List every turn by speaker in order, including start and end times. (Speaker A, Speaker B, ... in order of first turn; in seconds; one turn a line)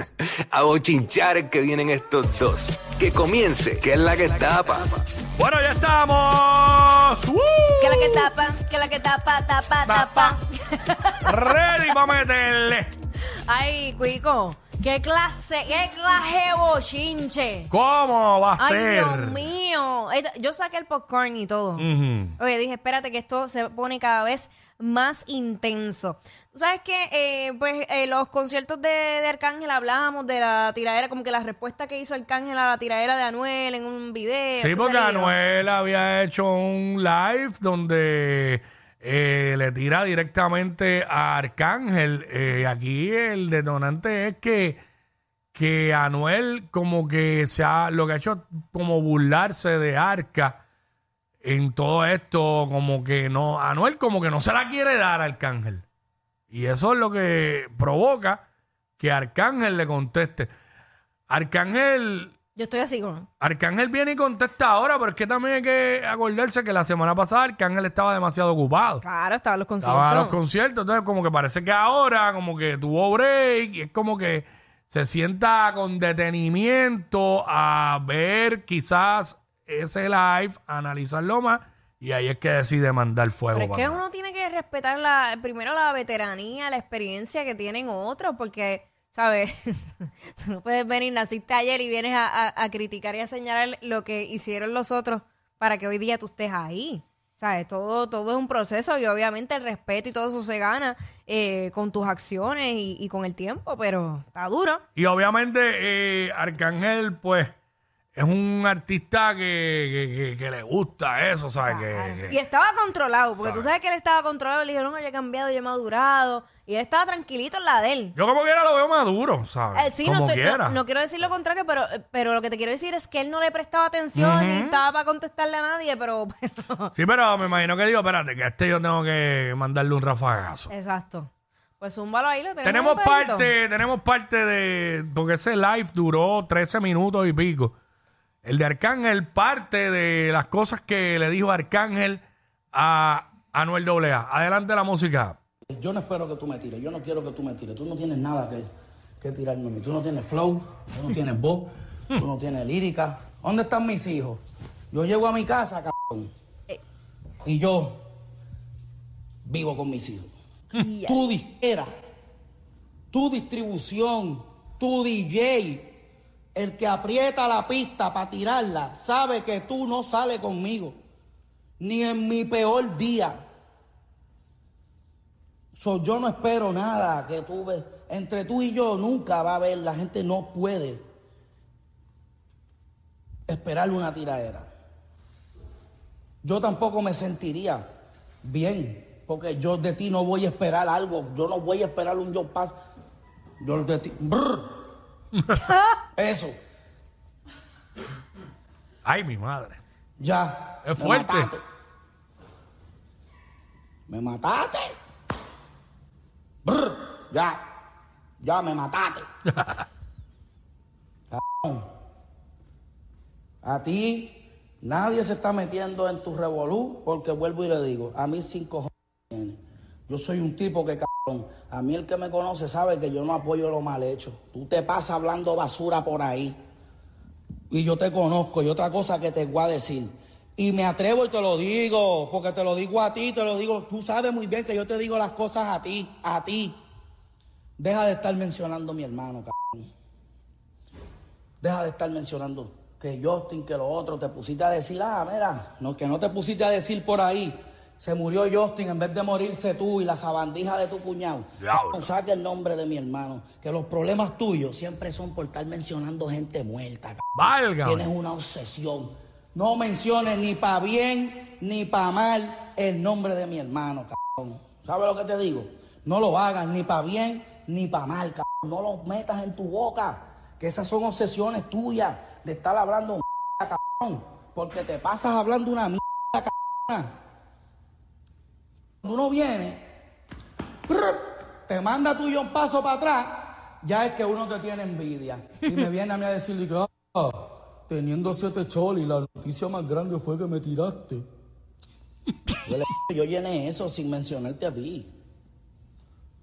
Speaker A: 0.5-5.0
Speaker B: 5.4-8.3
Speaker C: 7.8-11.3
Speaker B: 9.9-10.4
Speaker B: 11.2-12.9
Speaker C: 13.4-17.7
Speaker B: 17.7-19.4
Speaker C: 18.6-21.9
Speaker B: 21.8-22.3
Speaker C: 22.4-35.3
Speaker B: 34.6-44.8
Speaker B: 45.5-50.6
Speaker B: 51.4-55.8
Speaker B: 56.5-58.4
Speaker B: 59.0-60.5
Speaker B: 61.3-62.4
Speaker C: 62.5-63.3
Speaker B: 63.4-69.0
Speaker C: 69.0-70.4
Speaker B: 69.8-84.0
Speaker C: 83.5-104.8
Speaker B: 105.0-107.5
Speaker B: 108.2-112.4
Speaker C: 111.6-118.2
Speaker B: 113.4-113.7
Speaker B: 118.2-120.8
Speaker C: 119.7-126.9
Speaker B: 124.2-124.8
Speaker B: 127.0-130.7
Speaker C: 130.7-133.5
Speaker B: 132.6-137.7
Speaker B: 138.4-142.2
Speaker B: 142.7-145.4
Speaker D: 145.7-148.7
Speaker D: 149.2-154.4
Speaker D: 154.9-156.3
Speaker D: 157.4-158.0
Speaker D: 159.4-160.3
Speaker C: 160.7-161.2
Speaker D: 160.9-161.9
Speaker D: 163.1-165.9
Speaker D: 166.6-170.9
Speaker D: 171.8-173.4
Speaker D: 175.7-181.0
Speaker D: 183.5-184.7
Speaker D: 186.4-187.8
Speaker D: 188.4-192.8
Speaker D: 193.6-194.7
Speaker D: 196.2-196.6
Speaker B: 199.1-199.8
Speaker D: 200.2-201.6
Speaker B: 200.8-201.5
Speaker D: 204.1-204.9
Speaker D: 206.6-207.6
Speaker D: 208.4-209.3
Speaker B: 209.5-209.8
Speaker D: 211.3-211.8
Speaker D: 213.6-226.6
Speaker D: 227.7-236.8
Speaker D: 237.8-239.9
Speaker D: 241.6-257.3
Speaker B: 251.6-252.1
Speaker B: 257.4-258.1
Speaker D: 257.8-277.1
Speaker D: 279.0-279.8
Speaker D: 280.9-291.3
Speaker D: 292.6-295.1